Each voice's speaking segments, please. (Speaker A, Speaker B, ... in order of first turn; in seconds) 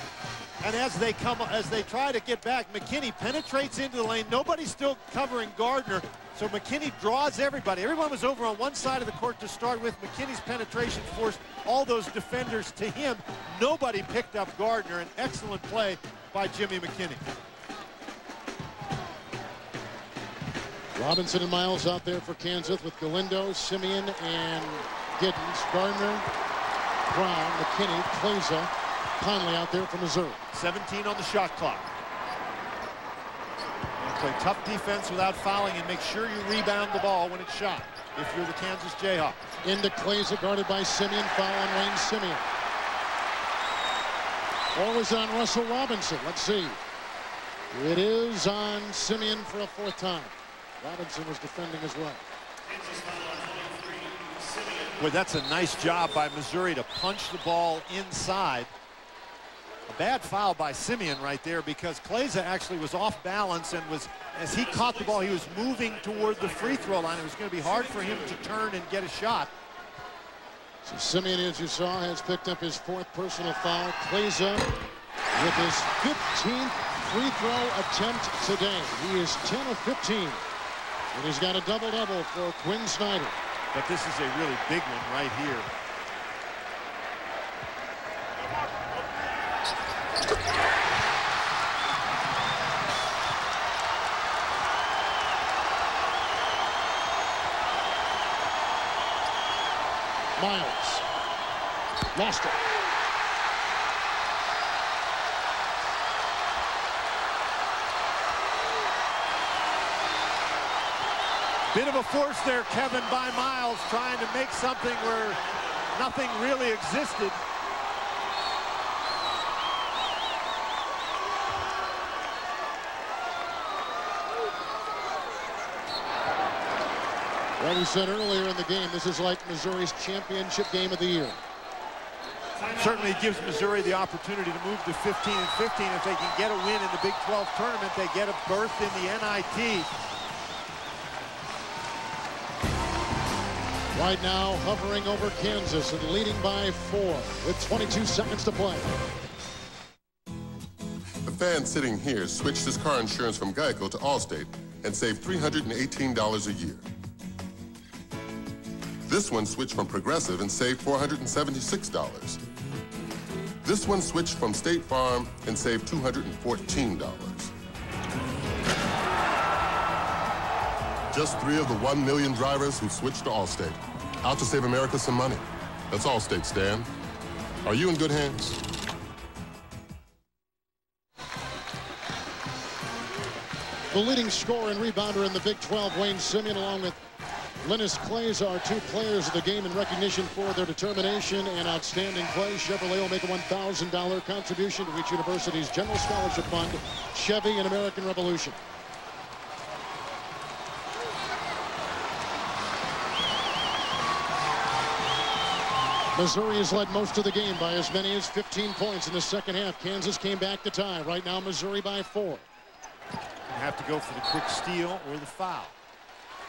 Speaker A: 0.6-17.2, 30.5-31.9, 34.0-39.4, 55.0-58.7, 59.9-69.5, 83.7-85.7, 111.7-115.4, 115.9-117.4, 132.7-139.9, 213.5-215.7
Speaker B: 20.9-26.2, 27.1-30.4, 39.6-42.5, 44.7-46.8, 47.7-52.2, 70.8-74.7, 75.3-80.4, 81.1-83.3, 100.4-101.0, 102.1-102.5, 127.6-131.4, 143.9-148.9, 183.9-187.0, 187.6-198.6, 206.1-212.4
Speaker C: 151.2-156.8, 159.1-162.4, 163.6-167.5, 171.1-176.9, 177.6-178.6